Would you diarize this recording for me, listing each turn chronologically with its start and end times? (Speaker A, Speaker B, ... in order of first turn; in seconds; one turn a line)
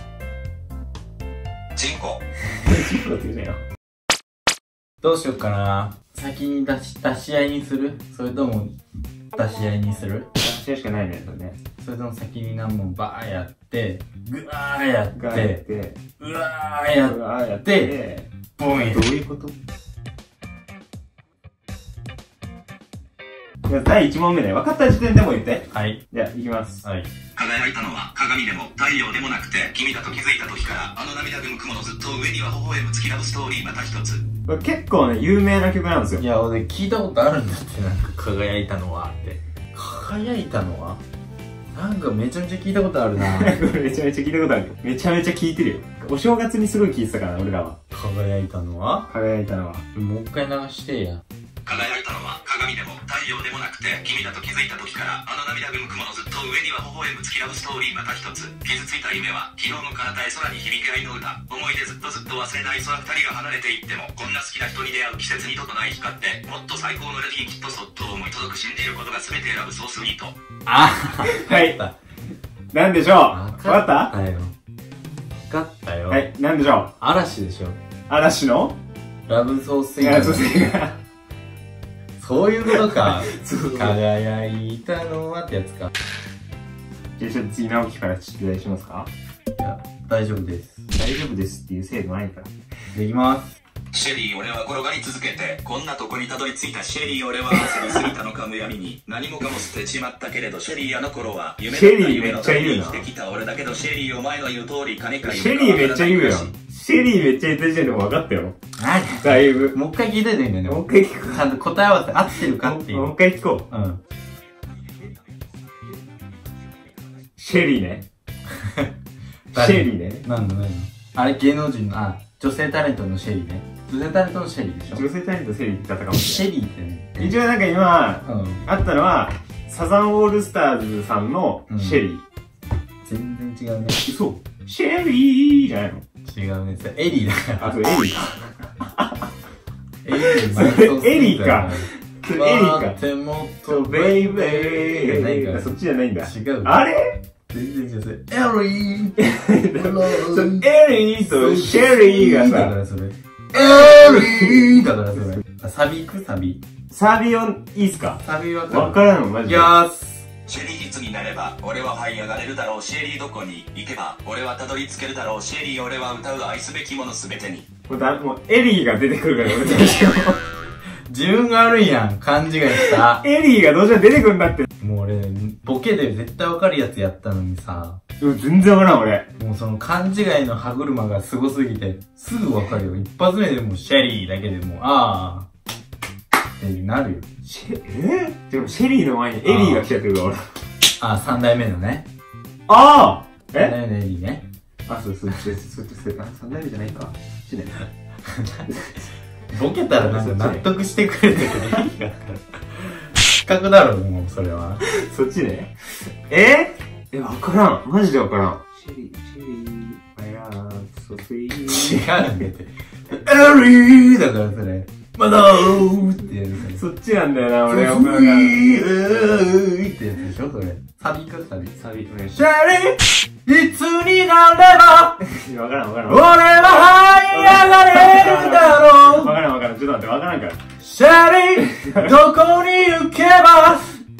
Speaker A: 1.7-2.2
Speaker B: 2.5-3.6
Speaker C: 5.0-8.8
Speaker C: 9.3-10.3
Speaker B: 10.3-11.6
Speaker C: 11.8-15.6
Speaker B: 15.1-16.0
Speaker C: 16.2-17.9
Speaker B: 17.0-19.6
Speaker C: 18.6-19.1
Speaker B: 23.7-26.8
Speaker C: 25.7-26.0
Speaker C: 26.8-27.1
Speaker A: 27.4-34.2
Speaker B: 34.5-36.2
Speaker C: 36.2-41.0
Speaker C: 41.7-43.5
Speaker B: 43.2-47.8
Speaker C: 47.9-49.1
Speaker B: 49.1-49.8
Speaker C: 49.9-51.2
Speaker A: 51.6-70.3
Speaker C: 70.7-71.9
Speaker B: 71.3-71.8
Speaker B: 72.7-74.1
Speaker C: 73.3-74.5
Speaker C: 75.5-76.2
Speaker B: 76.1-76.9
Speaker C: 77.0-77.8
Speaker B: 78.1-78.8
Speaker C: 79.3-80.6
Speaker B: 80.0-81.0
Speaker C: 82.2-85.9
Speaker B: 82.7-84.0
Speaker B: 87.2-89.1
Speaker C: 89.6-90.9
Speaker B: 90.9-92.5
Speaker C: 92.9-93.6
Speaker A: 93.9-106.5
Speaker B: 101.7-103.0
Speaker B: 105.2-108.6
Speaker C: 108.8-113.1
Speaker B: 109.2-109.8
Speaker B: 110.6-111.5
Speaker B: 112.3-113.7
Speaker C: 113.7-114.0
Speaker B: 117.4-118.0
Speaker C: 118.6-118.9
Speaker B: 119.5-120.2
Speaker C: 119.5-125.0
Speaker B: 124.9-126.5
Speaker C: 126.1-127.4
Speaker B: 127.2-132.2
Speaker C: 128.2-128.7
Speaker C: 131.7-132.0
Speaker C: 133.0-134.0
Speaker B: 134.0-136.0
Speaker C: 136.2-137.8
Speaker B: 137.6-139.2
Speaker C: 140.0-146.8
Speaker B: 140.2-143.0
Speaker B: 143.7-147.2
Speaker C: 147.5-156.6
Speaker B: 149.2-152.7
Speaker B: 153.6-154.7
Speaker B: 156.9-159.7
Speaker C: 158.2-160.3
Speaker A: 160.4-167.6
Speaker B: 167.9-170.4
Speaker C: 171.1-173.2
Speaker B: 172.8-174.7
Speaker C: 174.8-178.0
Speaker B: 178.2-179.3
Speaker C: 179.4-185.5
Speaker C: 186.6-187.3
Speaker B: 187.4-190.4
Speaker C: 189.4-189.9
Speaker C: 191.0-192.1
Speaker B: 192.7-193.7
Speaker C: 193.5-194.5
Speaker B: 194.9-197.8
Speaker C: 198.3-198.6
Speaker B: 198.7-198.9
Speaker C: 199.5-204.8
Speaker B: 199.9-200.7
Speaker B: 204.8-205.7
Speaker B: 206.3-212.4
Speaker C: 211.7-216.8
Speaker B: 216.7-218.6
Speaker C: 217.7-221.7
Speaker B: 221.7-222.5
Speaker C: 222.3-225.2
Speaker B: 225.2-230.6
Speaker C: 226.1-229.4
Speaker C: 230.8-233.9
Speaker B: 231.7-232.1